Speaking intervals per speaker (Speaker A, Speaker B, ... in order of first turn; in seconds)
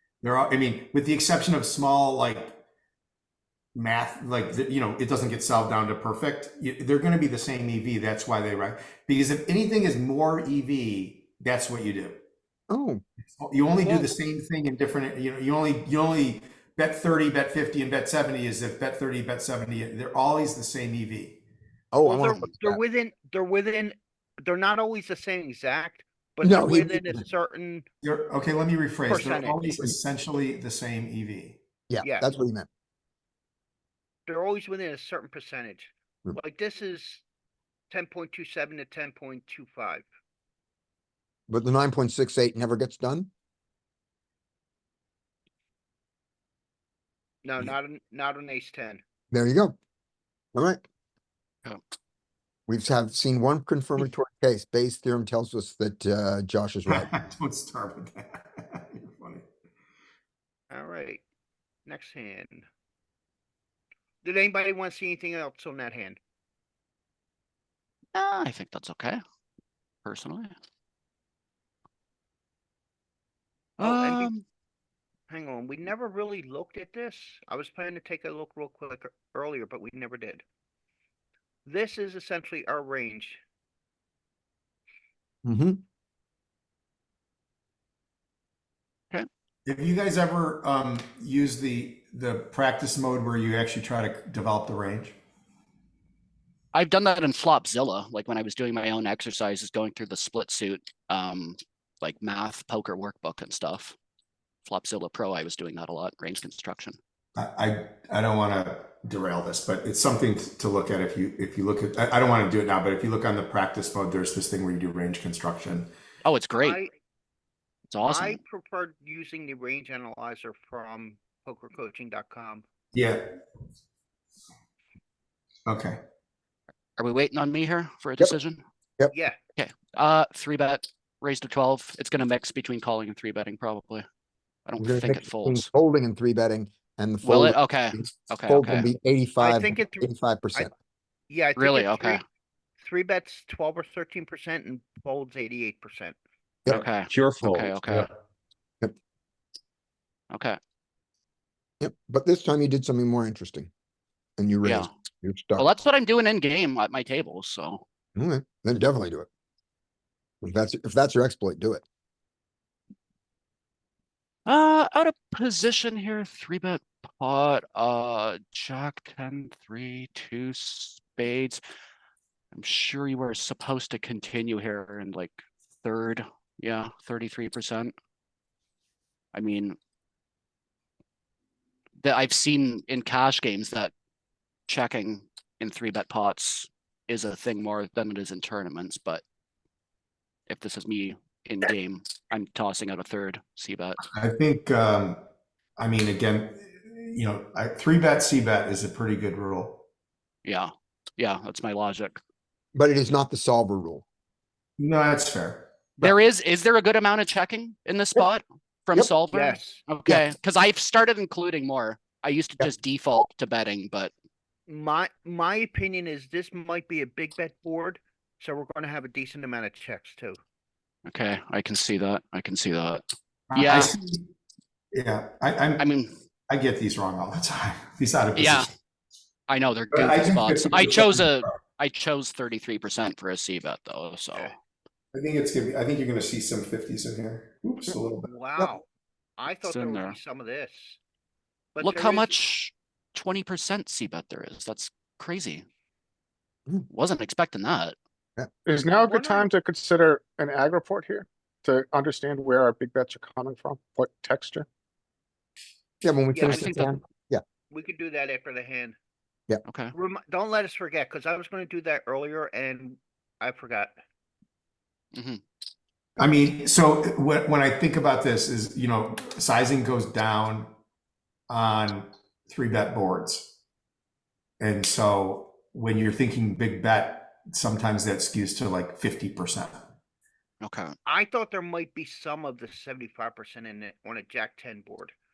Speaker A: 0.2-2.5, 3.8-12.2, 13.4-21.4, 28.0-31.6, 56.9-59.5, 89.7-95.2, 107.4-115.9, 122.9-123.2, 125.7-126.0, 194.1-195.2, 195.8-199.8, 204.8-205.7, 223.5-224.3, 224.9-225.8, 226.5-228.7, 229.9-231.5, 235.1-238.3, 266.2-270.7, 271.5-273.5, 274.6-279.9
Speaker B: 12.7-13.0, 21.9-22.8, 26.4-27.2, 31.9-32.7, 41.5-43.3, 49.3-49.8, 50.5-50.8, 52.7-57.1, 85.5-85.8, 134.8-140.7, 151.8-153.7, 154.4-155.7, 158.2-159.3, 160.4-161.8, 202.8-204.0, 256.0-257.4
Speaker C: 13.8-14.2, 22.0-27.9, 29.1-29.8, 32.0-32.3, 34.3-37.2, 37.9-40.1, 47.4-49.0, 60.7-61.2, 61.9-62.7, 64.2-66.2, 73.8-74.3, 75.3-80.4, 81.7-83.4, 116.6-116.9, 118.0-122.7, 129.1-129.4, 139.4-140.7, 141.3-142.2, 142.8-146.2, 209.3-209.8, 214.7-220.4, 238.2-238.9, 239.4-241.0, 241.8-242.3, 248.8-249.5, 257.7-259.0, 259.9-263.9, 281.1-285.1
Speaker D: 68.1-69.2, 70.0-70.5, 73.8-74.5, 96.7-104.0, 104.7-107.0, 116.2-116.8, 117.9-118.4, 127.0-128.6, 129.6-134.1, 134.7-135.7, 137.2-138.9, 141.6-142.2, 146.7-148.1, 150.3-150.6, 154.6-154.9, 155.6-157.8, 164.5-171.6, 172.5-177.9, 179.3-179.8, 182.0-183.9, 184.7-189.2, 190.5-194.0, 200.4-202.2, 206.0-214.1, 221.1-223.0, 223.5-223.9, 225.8-226.1, 228.4-228.7, 229.5-234.6, 239.6-240.2, 241.8-245.7, 246.9-248.0, 256.4-256.9, 259.7-259.9, 265.1-265.4, 280.6-281.0
Speaker E: 248.7-254.7